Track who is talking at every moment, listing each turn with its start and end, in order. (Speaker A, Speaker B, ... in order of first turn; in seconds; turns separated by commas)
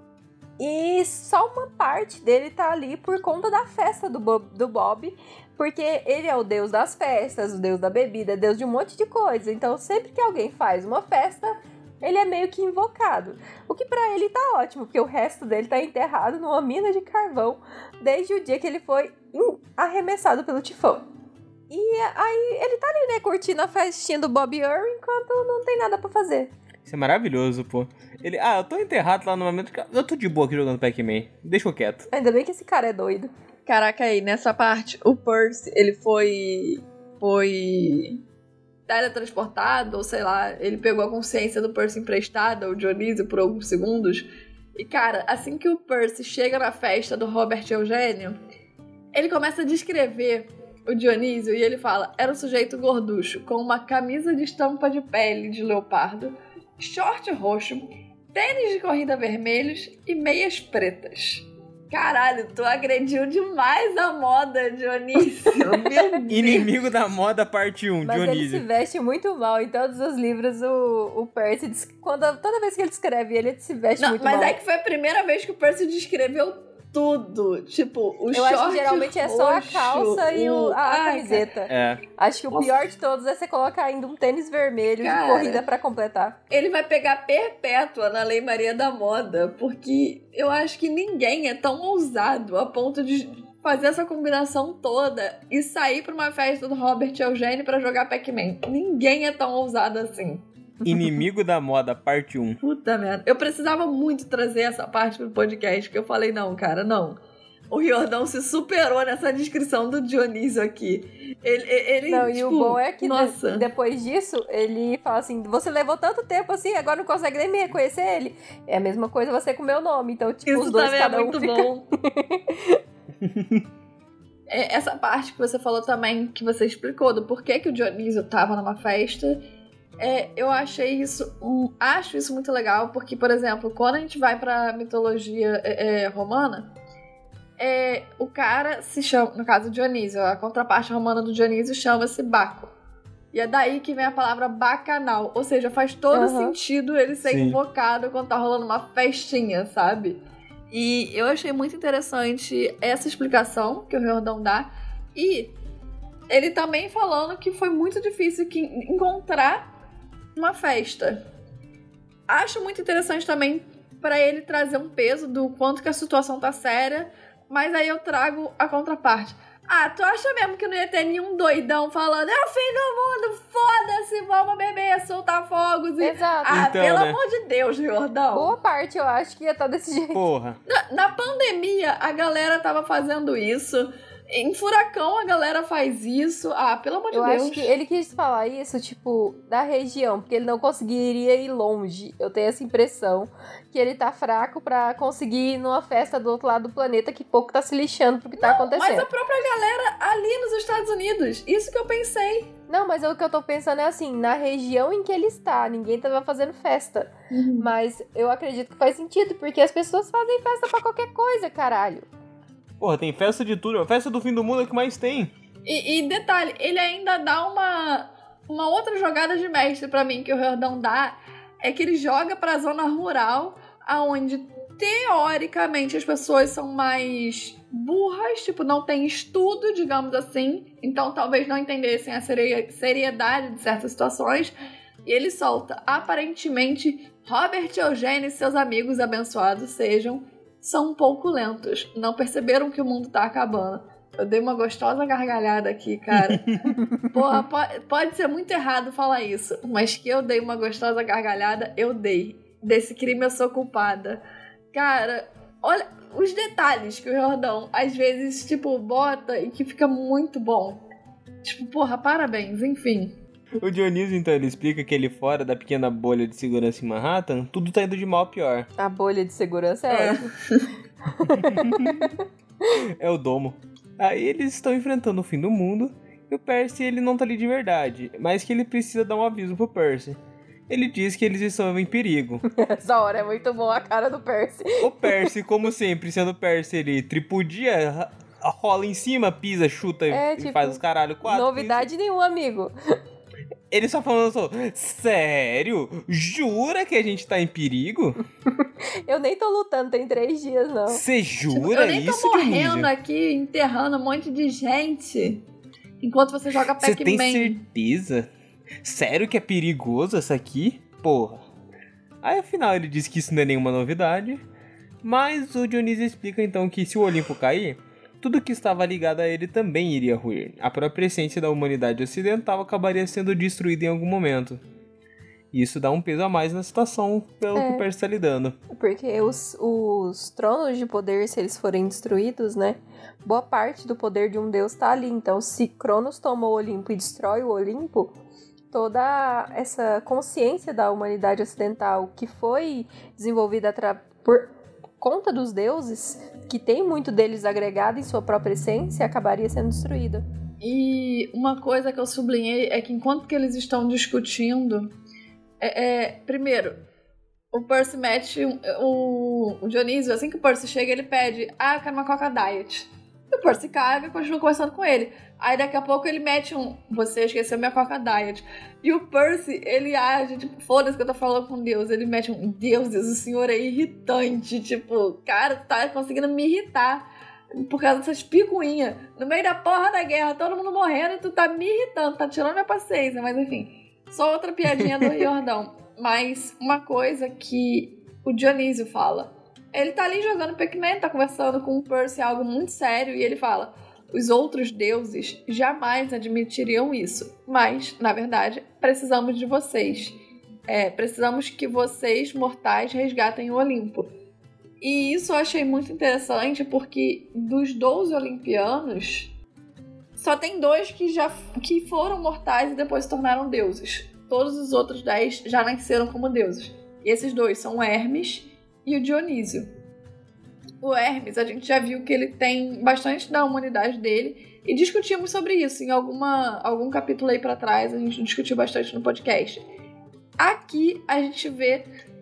Speaker A: 0.6-21.1, Speaker A: 21.7-26.5, Speaker B: 26.9-32.1, Speaker A: 32.1-33.3, Speaker C: 33.7-38.2, Speaker C: 38.9-48.4, Speaker C: 49.1-66.7, Speaker B: 66.3-68.6, Speaker A: 68.0-74.6, Speaker C: 74.0-81.5, Speaker A: 78.3-86.4, Speaker B: 81.7-82.0, Speaker C: 85.0-85.6, Speaker C: 86.5-100.5, Speaker B: 100.8-102.6, Speaker C: 102.6-107.2, Speaker C: 107.7-113.7, Speaker A: 112.1-122.8, Speaker C: 120.5-121.9, Speaker B: 123.2-123.6, Speaker C: 124.5-129.4, Speaker C: 130.0-136.7, Speaker C: 137.6-142.7, Speaker C: 143.3-150.2, Speaker A: 146.1-146.6, Speaker B: 147.2-147.6, Speaker C: 150.7-155.6, Speaker C: 156.3-159.7, Speaker C: 160.4-161.2, Speaker C: 162.3-178.5, Speaker A: 176.0-176.7, Speaker B: 176.4-177.2, Speaker A: 178.3-180.2, Speaker B: 180.1-180.6, Speaker C: 180.7-187.7, Speaker A: 187.1-199.1, Speaker C: 198.4-202.5, Speaker A: 202.7-212.1, Speaker C: 207.3-207.7, Speaker B: 212.8-215.3, Speaker C: 215.6-234.5, Speaker C: 235.1-254.2, Speaker B: 246.1-246.6, Speaker A: 246.7-247.1, Speaker C: 254.7-260.8, Speaker C: 261.4-263.2, Speaker B: 263.6-268.7, Speaker A: 268.8-270.3, Speaker C: 269.9-270.7, Speaker A: 271.2-272.2, Speaker B: 271.3-272.1, Speaker B: 272.7-282.4, Speaker A: 282.5-285.3, Speaker B: 284.8-291.9, Speaker A: 290.1-292.7, Speaker B: 293.7-298.2, Speaker A: 298.6-301.0, Speaker B: 300.9-302.9, Speaker C: 301.5-305.4, Speaker C: 306.0-307.6, Speaker B: 306.8-308.3, Speaker B: 308.8-311.4, Speaker B: 312.2-314.4, Speaker B: 315.0-324.6, Speaker B: 325.5-328.6, Speaker A: 327.5-327.9, Speaker A: 328.7-338.1, Speaker A: 338.7-344.5, Speaker A: 345.0-350.2, Speaker C: 350.6-354.9, Speaker C: 355.6-356.8, Speaker C: 357.5-377.1, Speaker C: 377.6-400.2, Speaker C: 400.7-404.1, Speaker C: 404.8-409.3, Speaker C: 410.2-419.7, Speaker C: 420.8-429.6, Speaker C: 430.4-431.9